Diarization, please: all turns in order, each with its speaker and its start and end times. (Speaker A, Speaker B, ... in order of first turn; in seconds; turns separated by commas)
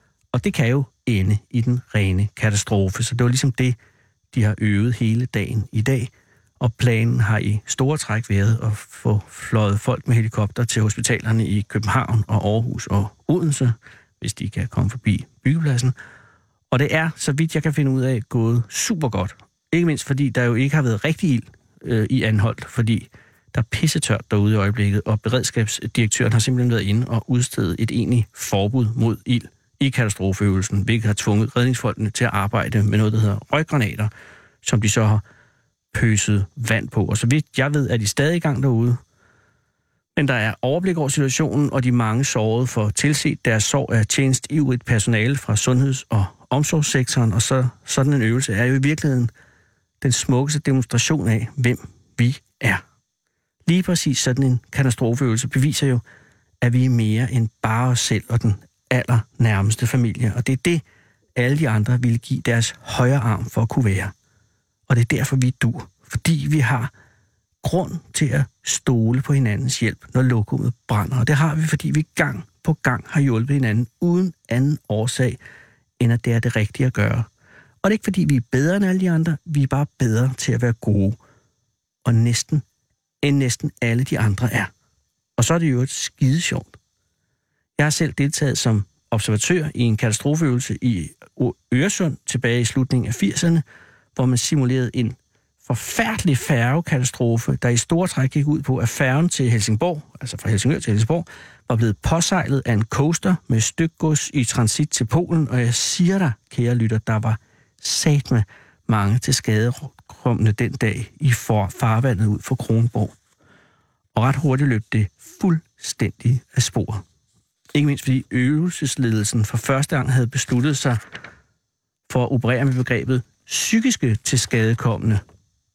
Speaker A: 0.3-3.8, Speaker A: 4.3-15.9, Speaker A: 16.7-34.1, Speaker A: 34.6-35.2, Speaker A: 35.9-39.0, Speaker A: 40.1-49.3, Speaker A: 50.0-52.8, Speaker A: 53.6-56.0, Speaker A: 56.6-60.8, Speaker A: 61.4-64.1, Speaker A: 64.9-66.9, Speaker A: 67.6-75.4, Speaker A: 76.0-77.3, Speaker A: 77.8-81.2, Speaker A: 82.0-82.6, Speaker A: 83.2-84.7, Speaker A: 85.4-86.7, Speaker A: 87.8-93.6, Speaker A: 94.2-113.1, Speaker A: 114.1-117.0, Speaker A: 117.7-121.0, Speaker A: 122.1-125.2